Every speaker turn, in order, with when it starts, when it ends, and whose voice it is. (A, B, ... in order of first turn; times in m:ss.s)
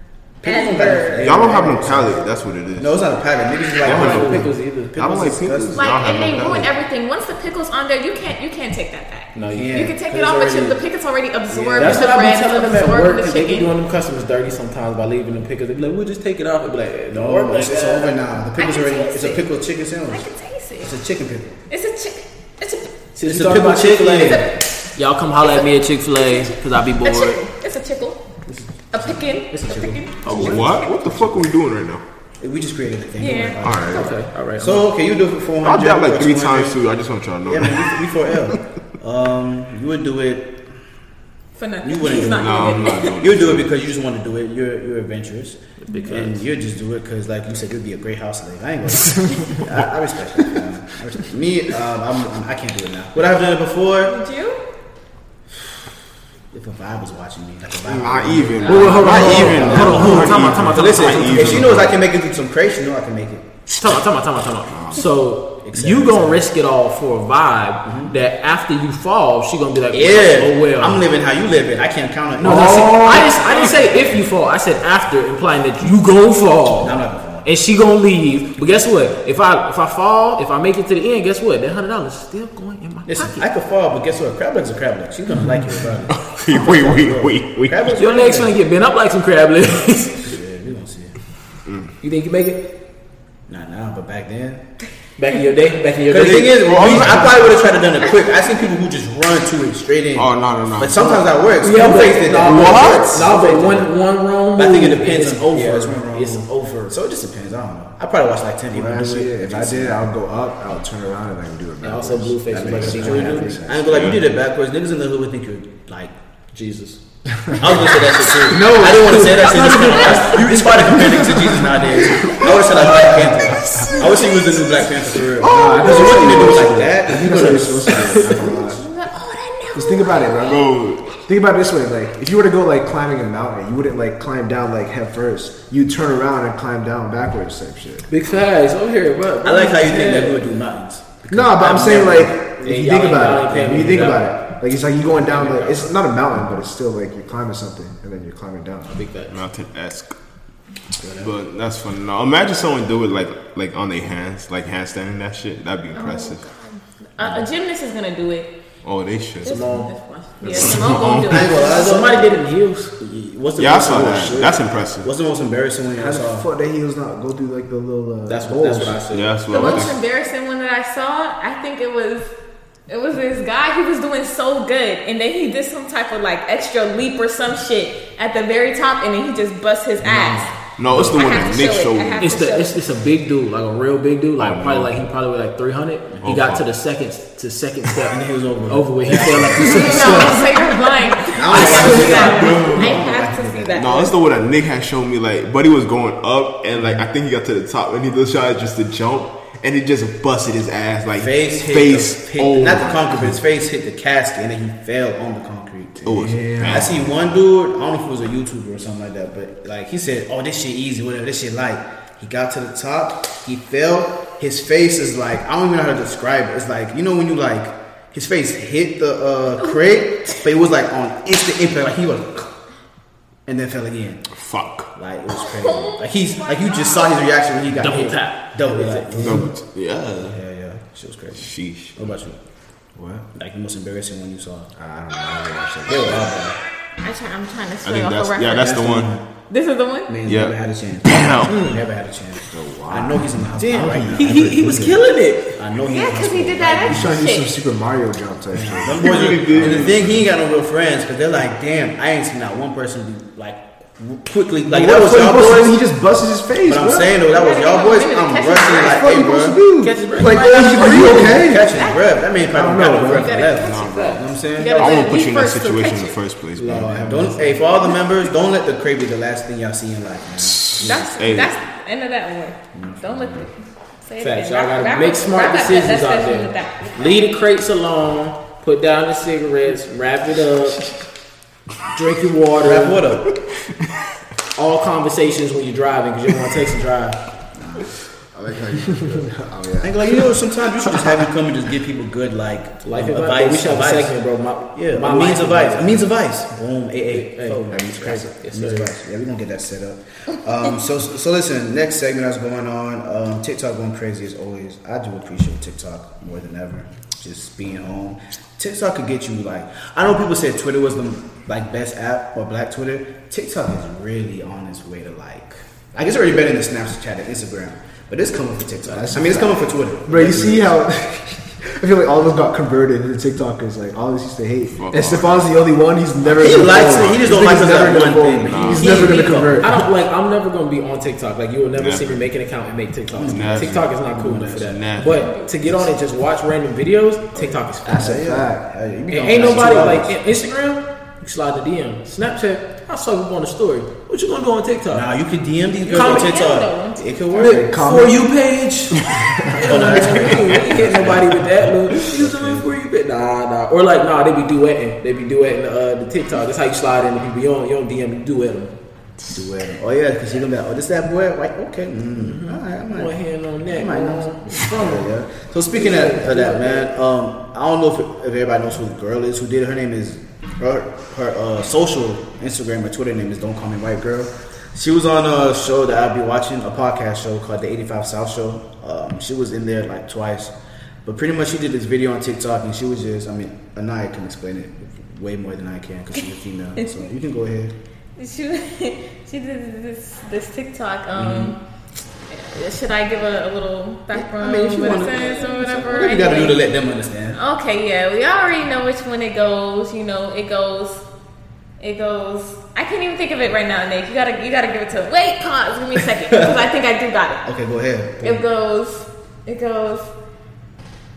0:00.4-0:02.2 A
0:00.4-0:01.4 B
0:01.2-0:03.1 C
0:02.8-0:06.0 A
0:03.8-0:06.7 C
0:03.8-0:04.9 D
0:05.7-0:13.7 B
0:09.3-0:09.8 D
0:09.5-0:10.8 A
0:11.5-0:12.1 A
0:11.8-0:18.1 D
0:17.1-0:20.3 A
0:18.6-0:19.5 B
0:20.1-0:20.9 B
0:20.8-0:21.6 A
0:21.7-0:23.0 B
0:23.1-0:27.4 D
0:23.2-0:24.5 A
0:24.2-0:24.6 B
0:25.4-0:28.2 B
0:28.9-0:30.9 B
0:29.0-0:31.4 A
0:29.5-0:30.6 D
0:30.2-0:32.0 C
0:32.4-0:36.8 A
0:33.2-0:33.6 B
0:33.6-0:34.1 C
0:33.9-0:34.9 D
0:35.6-0:38.5 C
0:37.4-0:40.6 A
0:41.6-0:43.1 B
0:41.8-0:54.2 A
0:42.2-0:43.7 C
0:45.8-0:46.4 D
0:54.0-0:54.6 B
0:56.5-1:03.4 A
0:57.8-1:02.0 C
0:58.6-1:01.7 D
1:03.8-1:11.0 D
1:04.7-1:05.0 C
1:05.6-1:06.4 A
1:07.8-1:08.1 A
1:09.9-1:14.2 A
1:12.4-1:23.4 D
1:16.8-1:17.5 A
1:23.0-1:28.5 A
1:26.1-1:27.8 C
1:27.9-1:30.3 D
1:30.2-1:31.1 A
1:31.6-1:31.9 C
1:32.0-1:32.7 D
1:33.5-1:34.6 A
1:35.2-1:37.3 D
1:36.1-1:43.9 A
1:36.6-1:37.4 C
1:40.2-1:41.2 C
1:41.6-1:46.9 D
1:42.4-1:43.2 C
1:44.6-1:50.0 A
1:48.7-1:54.1 E
1:51.8-1:53.6 D
1:52.8-1:56.1 A
1:53.8-1:54.2 C
1:56.5-1:57.0 D
1:57.3-1:57.6 E
1:57.5-2:08.7 A
1:58.5-2:01.0 D
1:58.5-2:01.8 E
2:02.2-2:02.6 C
2:02.9-2:03.9 E
2:03.8-2:04.8 B
2:05.4-2:08.8 E
2:05.6-2:06.3 C
2:08.7-2:10.7 B
2:09.7-2:18.1 E
2:10.4-2:11.1 C
2:18.1-2:20.4 D
2:19.4-2:22.3 A
2:21.3-2:28.9 E
2:22.6-2:24.4 D
2:23.5-2:24.2 A
2:25.1-2:25.9 D
2:28.9-2:29.4 D
2:29.3-2:30.1 C
2:31.0-2:31.3 A
2:31.2-2:36.5 C
2:35.9-2:38.5 B
2:38.8-2:39.7 C
2:39.4-2:42.0 B
2:39.4-2:39.9 D
2:40.4-2:41.5 C
2:41.2-2:42.3 A
2:41.4-2:43.0 D
2:43.0-2:46.5 A
2:43.6-2:45.1 C
2:43.8-2:44.5 E
2:46.0-2:49.0 E
2:48.3-2:49.6 D
2:49.1-2:50.0 C
2:49.5-2:52.3 B
2:52.9-3:02.8 B
3:00.0-3:01.1 A
3:00.8-3:02.5 C
3:02.2-3:10.6 D
3:04.4-3:04.9 C
3:06.2-3:06.6 C
3:08.1-3:10.4 A
3:09.6-3:14.1 B
3:11.3-3:13.8 A
3:11.5-3:12.6 D
3:11.5-3:13.0 C
3:13.8-3:23.3 C
3:21.2-3:42.5 A
3:26.0-3:27.2 C
3:26.0-3:27.0 E
3:43.5-3:44.2 A
3:44.3-3:44.9 C
3:44.9-3:49.5 A
3:45.3-3:47.3 B
3:47.8-3:49.4 D
3:49.2-3:50.4 C
3:50.2-3:52.4 A
3:51.4-3:52.0 C
3:53.0-3:53.2 E
3:53.3-3:54.8 A
3:54.8-3:56.2 E
3:55.8-3:56.6 A
3:55.9-3:56.2 B
3:57.0-3:58.9 B
3:57.8-3:59.1 C
3:58.6-3:59.2 A
3:59.5-4:00.2 B
4:00.1-4:05.0 A
4:00.2-4:01.7 C
4:01.5-4:01.8 D
4:02.4-4:05.0 E
4:03.6-4:05.6 D
4:05.5-4:07.2 A
4:05.8-4:07.5 B
4:06.8-4:10.2 E
4:08.5-4:15.8 A
4:08.9-4:10.2 C
4:14.7-4:17.2 E
4:16.6-4:19.6 A
4:17.2-4:19.0 B
4:18.8-4:21.7 E
4:19.8-4:21.4 D
4:20.6-4:25.1 A
4:21.7-4:22.0 B
4:22.5-4:23.4 E
4:23.1-4:26.2 B
4:23.4-4:27.0 C
4:26.6-4:31.0 A
4:26.6-4:27.4 D
4:26.7-4:27.3 E
4:30.4-4:31.5 C
4:30.8-4:37.2 B
4:32.7-4:33.5 A
4:34.2-4:40.9 D
4:41.9-4:43.0 D
4:42.6-4:43.3 A
4:44.6-4:47.2 D
4:47.6-4:47.9 A
4:48.4-4:50.3 E
4:48.4-4:49.2 C
4:49.8-4:54.2 A
4:52.8-4:56.1 D
4:54.7-5:20.7 A
4:57.1-4:58.9 D
5:18.8-5:29.9 E
5:24.7-5:25.5 C
5:26.2-5:27.2 C
5:26.4-5:29.2 A
5:28.4-5:29.2 C
5:28.8-5:38.2 D
5:28.9-5:29.4 B
5:31.7-5:32.2 C
5:33.1-5:34.8 A
5:33.2-5:33.9 C
5:34.6-5:35.3 C
5:35.0-5:35.6 B
5:35.6-5:35.9 A
5:37.3-5:40.2 A
5:37.8-5:38.6 E
5:39.1-5:45.1 D
5:39.4-5:39.8 E
5:44.9-5:47.7 A
5:45.8-5:47.3 B
5:45.9-5:46.3 D
5:47.3-5:58.7 D
5:47.4-5:48.2 E
5:49.0-5:50.2 E
5:49.6-5:52.7 A
5:50.1-5:51.1 C
5:59.3-6:03.1 A
6:02.1-6:05.1 D
6:03.6-6:20.5 A
6:05.7-6:06.9 D
6:21.0-6:27.7 A
6:26.8-6:27.0 B
6:28.2-6:31.6 B
6:31.1-6:31.5 A
6:32.3-6:36.6 B
6:34.1-6:37.4 A
6:37.3-6:41.0 B
6:41.8-6:47.5 B
6:47.4-6:48.5 A
6:48.2-6:50.1 B